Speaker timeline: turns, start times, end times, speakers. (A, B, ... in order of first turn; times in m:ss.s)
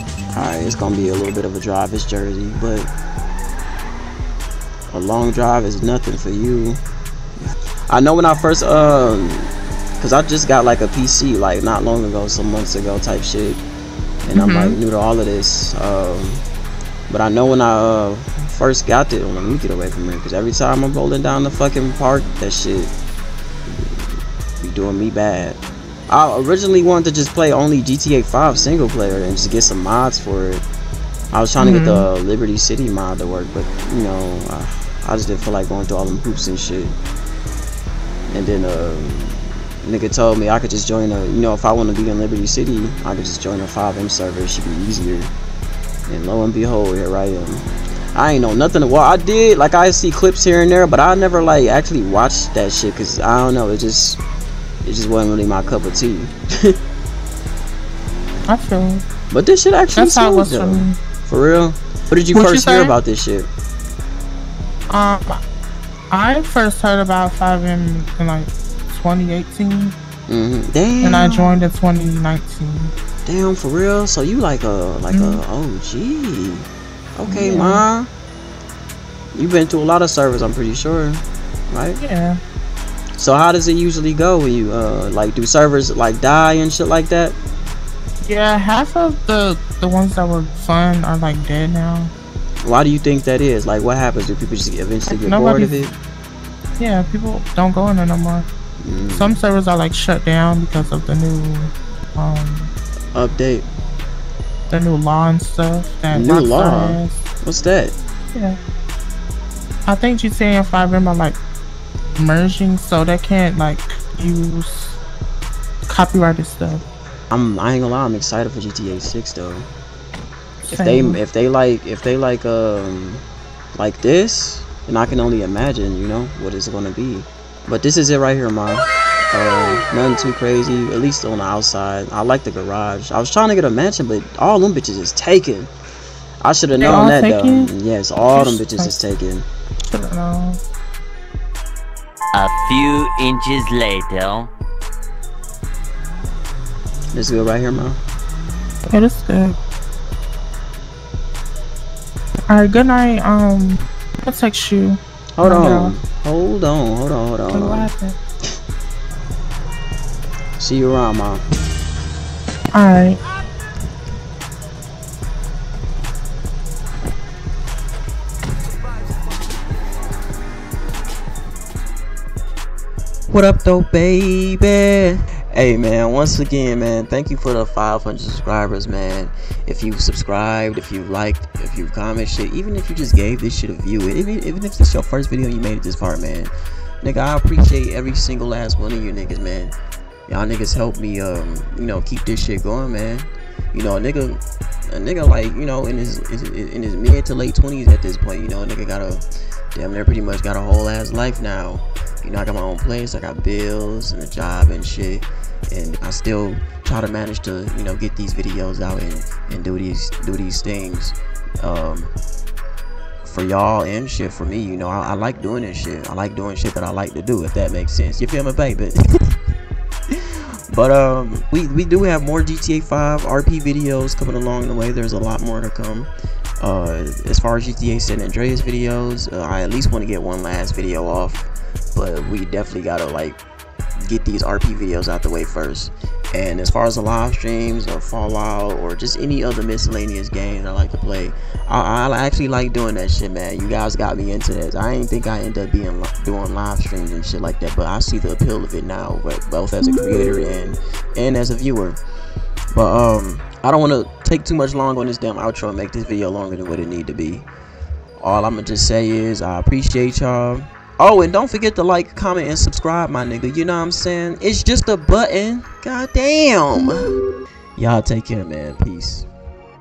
0:00.3-0:02.9 A
0:04.9-0:06.8 A
0:07.9-0:13.6 A
0:14.2-0:16.4 A
0:14.3-0:14.8 B
0:17.1-0:22.9 A
0:24.6-0:30.6 A
0:31.3-0:37.0 A
0:31.6-0:32.1 B
0:38.3-0:45.3 A
0:46.1-0:54.2 A
0:54.8-0:56.8 A
0:58.5-0:59.0 B
0:59.3-1:03.5 A
0:59.9-1:01.0 B
1:02.3-1:02.9 B
1:04.9-1:05.4 B
1:06.1-1:10.0 B
1:10.3-1:11.6 A
1:11.0-1:12.9 B
1:13.2-1:18.1 A
1:15.1-1:15.4 B
1:17.3-1:17.8 B
1:19.3-1:22.0 A
1:22.0-1:22.4 B
1:23.2-1:27.4 A
1:28.2-1:32.1 B
1:32.6-1:35.9 A
1:35.1-1:35.8 B
1:36.8-1:38.5 B
1:38.8-1:39.4 A
1:39.1-1:42.7 B
1:43.1-1:43.6 A
1:44.7-1:47.2 B
1:46.1-1:47.9 A
1:49.8-1:51.4 B
1:52.2-1:55.0 B
1:55.9-1:56.8 B
1:57.3-1:59.7 A
2:00.6-2:01.2 B
2:00.7-2:03.2 A
2:03.8-2:15.7 A
2:16.4-2:19.5 A
2:16.7-2:17.7 B
2:18.3-2:18.9 B
2:19.9-2:20.6 B
2:22.3-2:24.5 C
2:27.1-2:28.0 A
2:28.9-2:29.6 B
2:32.5-2:36.0 B
2:35.4-2:37.9 A
2:37.5-2:38.2 B
2:40.6-2:41.4 A
2:42.7-2:43.2 B
2:53.3-3:09.7 A
3:10.3-3:19.2 A
3:19.7-3:32.1 A
3:33.2-3:39.4 A
3:40.1-3:46.1 A
3:46.6-3:53.4 A
3:54.0-4:12.0 A
4:12.7-4:17.5 A
4:18.2-4:27.2 A
4:27.8-4:29.3 A